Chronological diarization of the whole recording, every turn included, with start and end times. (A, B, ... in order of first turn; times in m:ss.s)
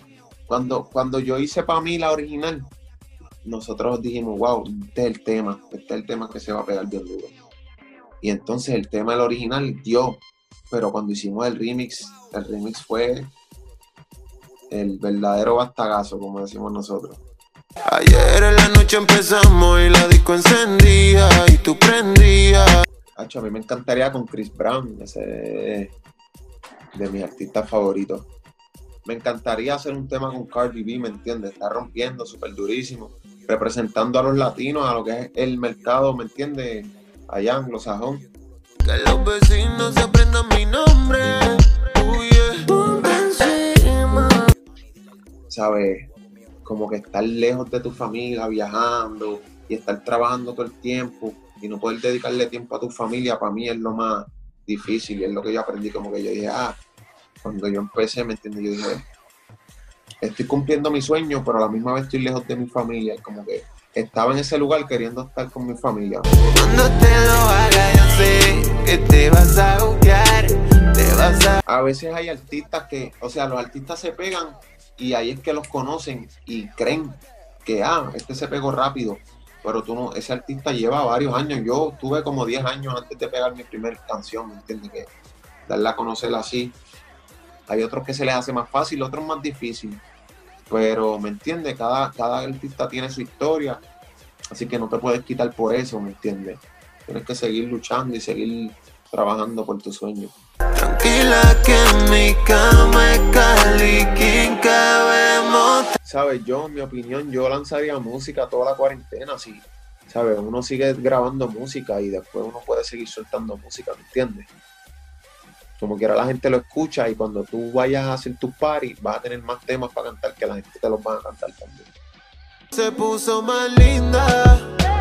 0:00.5-0:02.7 A
0:03.4-0:07.4 A
0:08.2-0:13.3 A
0:14.7-0:17.2 A
0:17.8-0:22.8 B
0:23.2-0:26.0 A
0:27.0-0:28.3 A
0:29.0-0:38.3 A
0:38.8-0:44.5 B
0:45.5-0:46.1 A
0:46.6-0:56.8 A
0:57.4-0:59.1 A
1:00.2-1:06.4 A
1:06.5-1:11.6 B
1:11.7-1:25.1 A
1:25.6-1:26.8 A
1:27.7-1:30.0 A
1:30.7-1:33.8 A
1:34.5-1:40.3 A
1:40.8-1:45.9 B
1:46.0-1:54.5 A
1:55.8-2:01.9 A
2:02.7-2:04.8 B